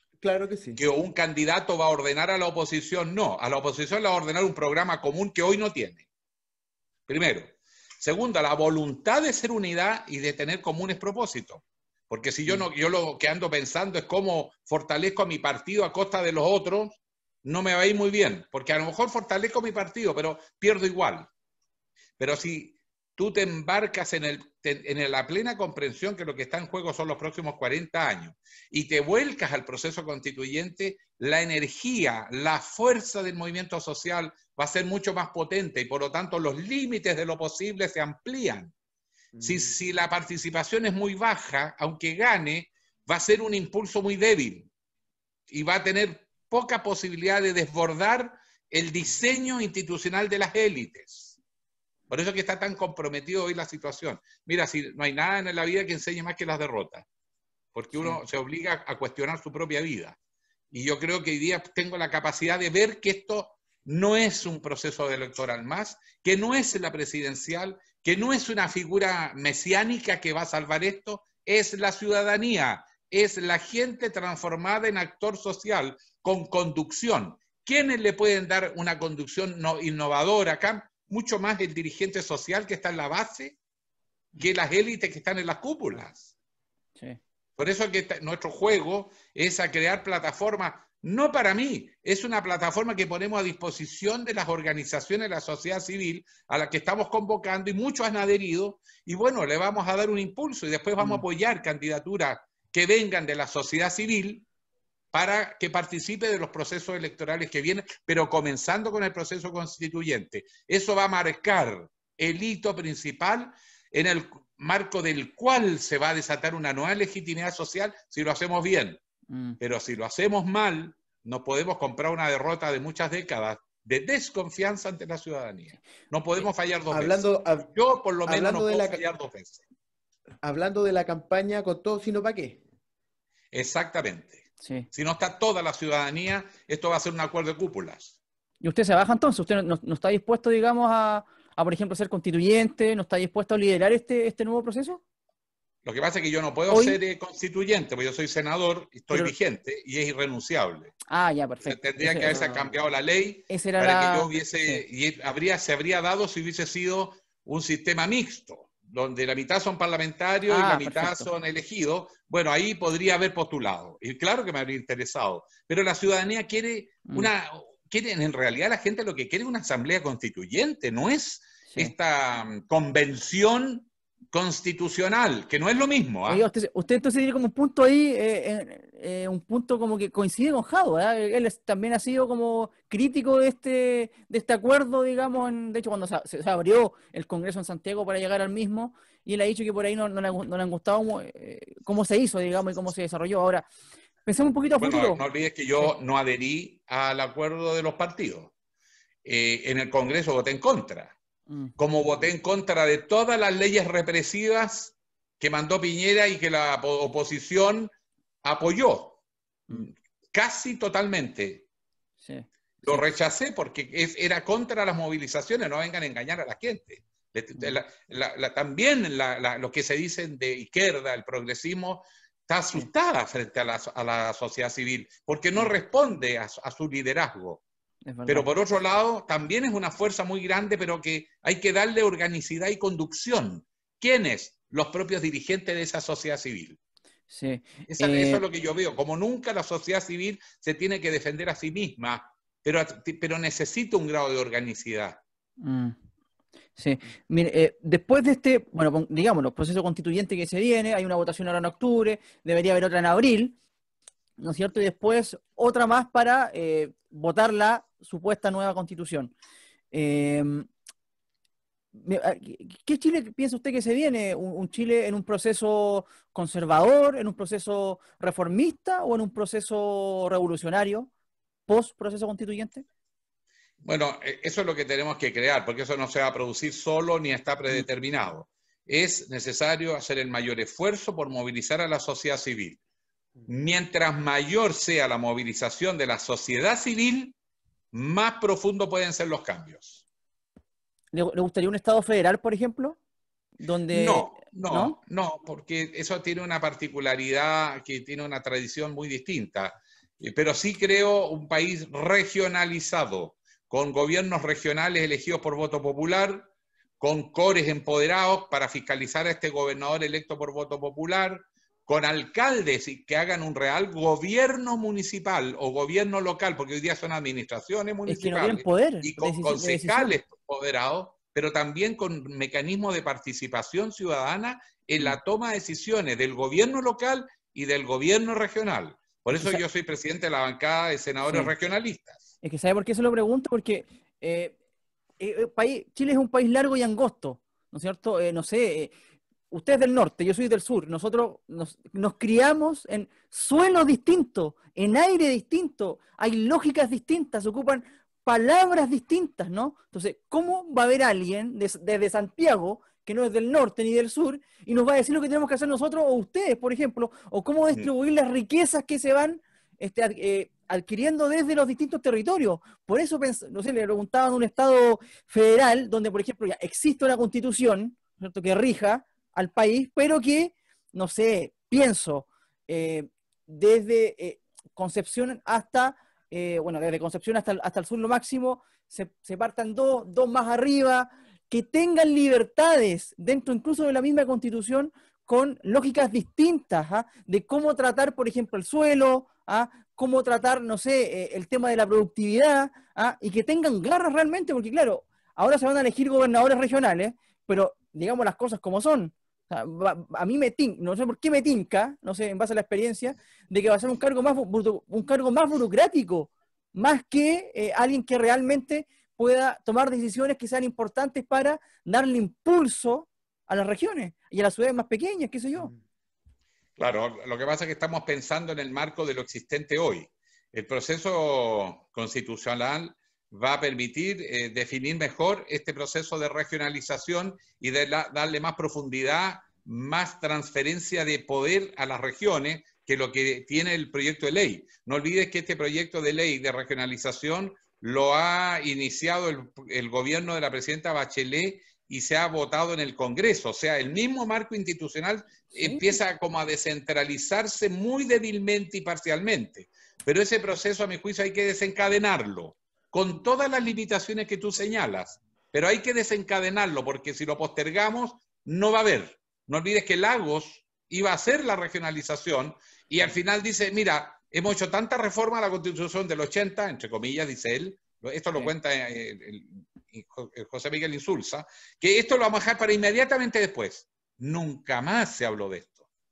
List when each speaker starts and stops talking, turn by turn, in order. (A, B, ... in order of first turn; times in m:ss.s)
0:00.2-0:00.8 A
0:00.8-0:06.0 B
0:07.1-0:21.3 B
0:22.2-0:38.7 B
0:39.4-0:39.7 A
0:39.4-0:44.7 B
0:45.5-0:51.4 B
0:52.1-0:57.1 B
0:57.7-1:00.2 B
0:57.9-0:58.2 C
1:00.7-1:23.6 B
1:24.4-1:26.3 B
1:27.6-1:44.5 B
1:41.0-1:41.2 C
1:45.1-1:59.0 B
1:59.3-1:59.6 C
1:59.6-2:09.6 B
2:06.9-2:07.7 A
2:08.3-2:09.0 A
2:10.4-2:12.6 A
2:13.5-2:18.2 B
2:14.6-2:14.9 C
2:18.6-2:25.0 C
2:25.8-2:31.0 B
2:26.7-2:27.0 C
2:31.1-2:32.6 C
2:31.6-2:56.5 B
2:33.5-2:34.8 C
2:40.5-2:41.3 C
2:51.7-2:51.9 C
2:56.3-3:13.7 C
3:14.2-3:15.2 C
3:14.8-3:18.5 B
3:19.2-3:21.2 B
3:21.8-3:27.9 B
3:28.4-3:29.2 B
3:29.7-3:31.7 B
3:32.2-3:33.0 C
3:32.8-3:47.6 B
3:48.1-3:48.5 C
3:48.3-3:56.8 B
3:57.3-3:58.4 C
3:57.9-4:05.2 B
4:05.6-4:06.0 C
4:06.8-4:13.6 C
4:14.4-4:19.3 C
4:19.9-4:20.7 C
4:21.9-4:31.1 C
4:31.7-4:32.8 C
4:33.8-4:42.8 B
4:43.5-4:47.4 B
4:47.9-4:50.0 B
4:51.1-4:53.0 C
4:53.6-4:55.0 C
4:53.9-5:06.5 B
5:07.0-5:32.2 B
5:18.1-5:20.2 C
5:29.4-5:29.6 C
5:31.2-5:31.5 C
5:32.4-5:34.6 C
5:35.2-5:38.9 C
5:39.5-6:55.7 C
6:56.8-7:55.8 B
7:25.5-7:26.0 C